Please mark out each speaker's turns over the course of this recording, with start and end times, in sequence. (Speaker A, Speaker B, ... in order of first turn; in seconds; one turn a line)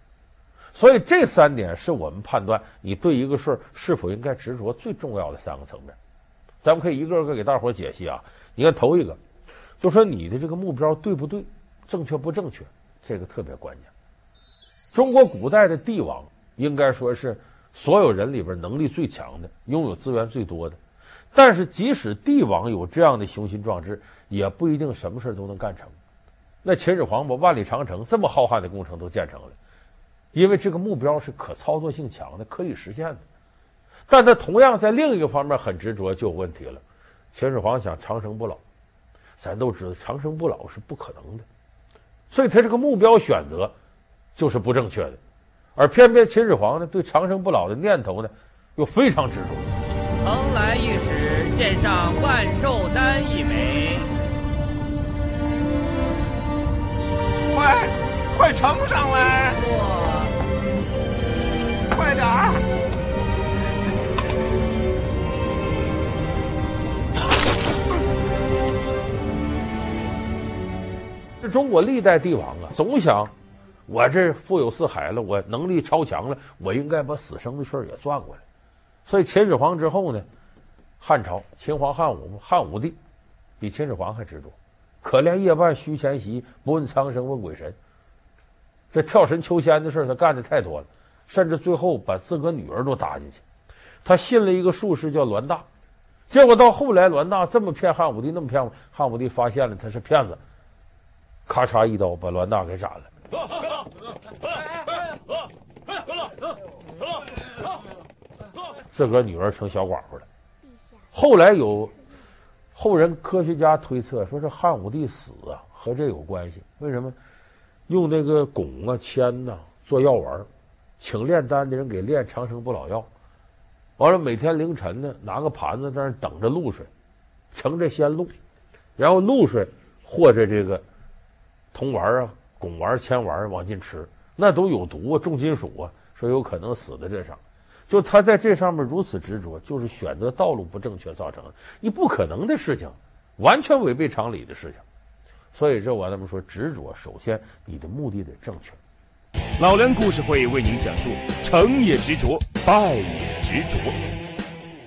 Speaker A: 0.7-6.0
Speaker A: 6.6-9.2
Speaker A: 9.8-13.9
Speaker A: 14.9-20.8
Speaker A: 21.3-25.9
Speaker A: 26.6-29.5
Speaker A: 30.3-33.2
Speaker A: 34.1-36.8
Speaker A: 37.3-38.6
Speaker A: 39.4-41.5
Speaker A: 42.3-43.7
Speaker A: 44.3-45.2
Speaker A: 45.8-49.7
Speaker B: 50.2-54.1
Speaker C: 57.5-59.5
Speaker B: 59.5-60.3
Speaker C: 61.9-62.6
Speaker A: 71.4-73.3
Speaker A: 73.9-78.4
Speaker A: 79.1-80.2
Speaker A: 81.0-83.0
Speaker A: 83.6-87.8
Speaker A: 88.9-93.4
Speaker A: 94.0-95.7
Speaker A: 96.3-100.4
Speaker A: 101.5-103.1
Speaker A: 108.9-110.2
Speaker A: 111.1-112.0
Speaker A: 112.8-117.2
Speaker A: 117.9-120.5
Speaker A: 121.0-123.1
Speaker A: 124.0-126.9
Speaker A: 127.5-128.3
Speaker A: 129.0-130.8
Speaker A: 131.7-144.8
Speaker A: 145.5-148.8
Speaker D: 149.6-154.0